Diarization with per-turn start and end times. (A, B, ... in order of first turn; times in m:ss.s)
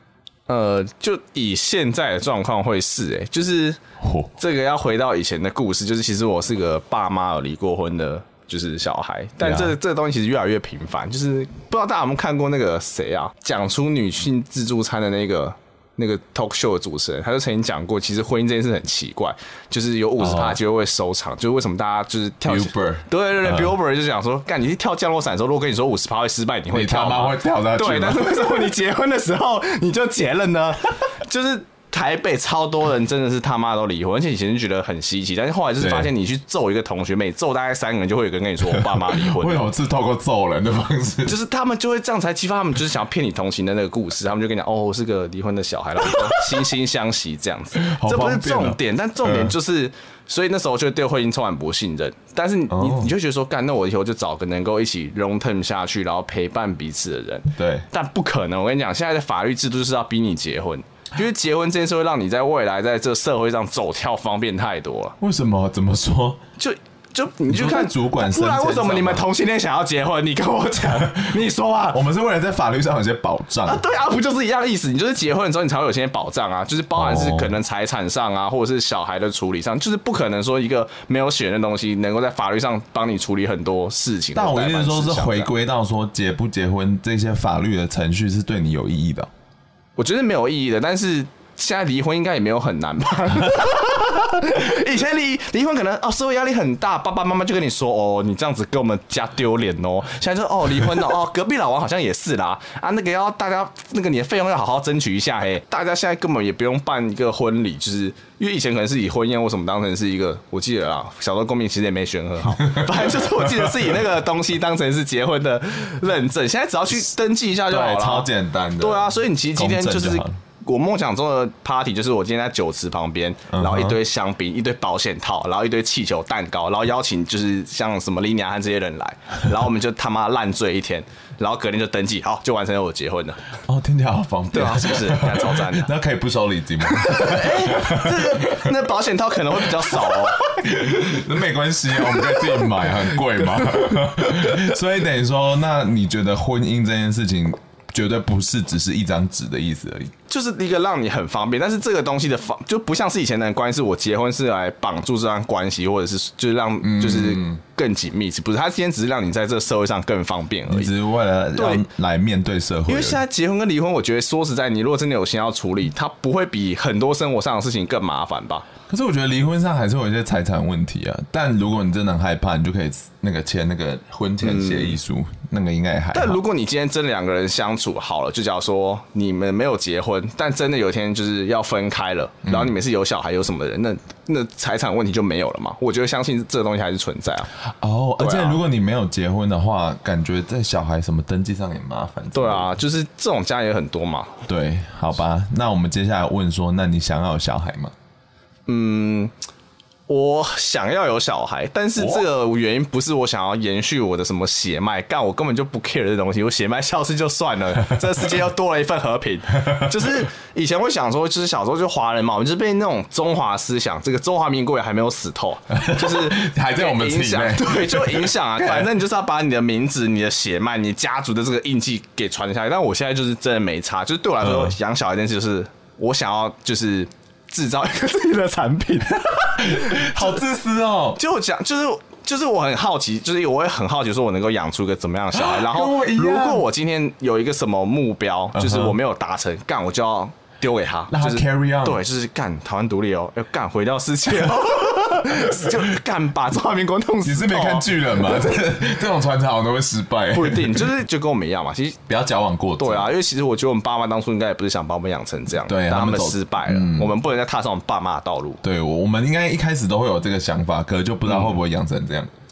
0:00.5-0:03.8 A
0:04.0-0:04.3 B
0:04.4-0:39.7 A
0:09.4-0:09.8 B
0:20.2-0:20.6 B
0:22.4-0:23.8 B
0:26.7-0:28.7 B
0:35.8-0:36.1 B
0:38.7-0:41.4 B
0:41.2-1:05.2 A
0:47.8-0:49.5 B
0:52.7-0:53.1 B
0:57.6-0:57.8 B
1:05.2-1:06.4 B
1:06.6-1:12.0 A
1:07.5-1:09.3 B
1:11.0-1:13.8 B
1:13.6-1:25.5 A
1:16.9-1:17.5 B
1:24.3-1:29.3 B
1:30.0-1:58.3 A
1:52.6-1:53.9 B
1:57.7-2:00.4 B
1:58.8-2:13.4 A
2:03.5-2:04.0 B
2:13.7-2:18.7 B
2:14.5-2:15.9 A
2:16.9-2:20.5 A
2:19.6-2:30.1 B
2:30.3-2:40.9 A
2:36.8-2:37.6 B
2:40.7-2:43.2 B
2:41.6-2:41.8 A
2:42.9-2:48.7 A
2:48.9-2:56.4 B
2:54.4-2:55.0 A
2:56.1-3:07.5 A
3:02.4-3:02.7 B
3:07.8-3:12.7 B
3:08.2-3:08.6 A
3:12.3-3:14.4 A
3:14.5-3:17.9 B
3:18.7-3:19.3 A
3:20.1-3:50.4 A
3:22.0-3:22.2 B
3:35.7-3:38.9 B
3:44.4-3:44.8 B
3:49.5-3:51.2 B
3:51.2-4:07.9 A
3:55.3-3:56.6 B
3:58.5-3:59.0 B
4:01.1-4:02.0 B
4:07.2-4:10.8 B
4:10.3-4:12.0 A
4:12.1-4:13.1 B
4:12.8-4:18.6 A
4:15.6-4:17.1 B
4:18.6-4:22.3 B
4:21.2-4:21.6 A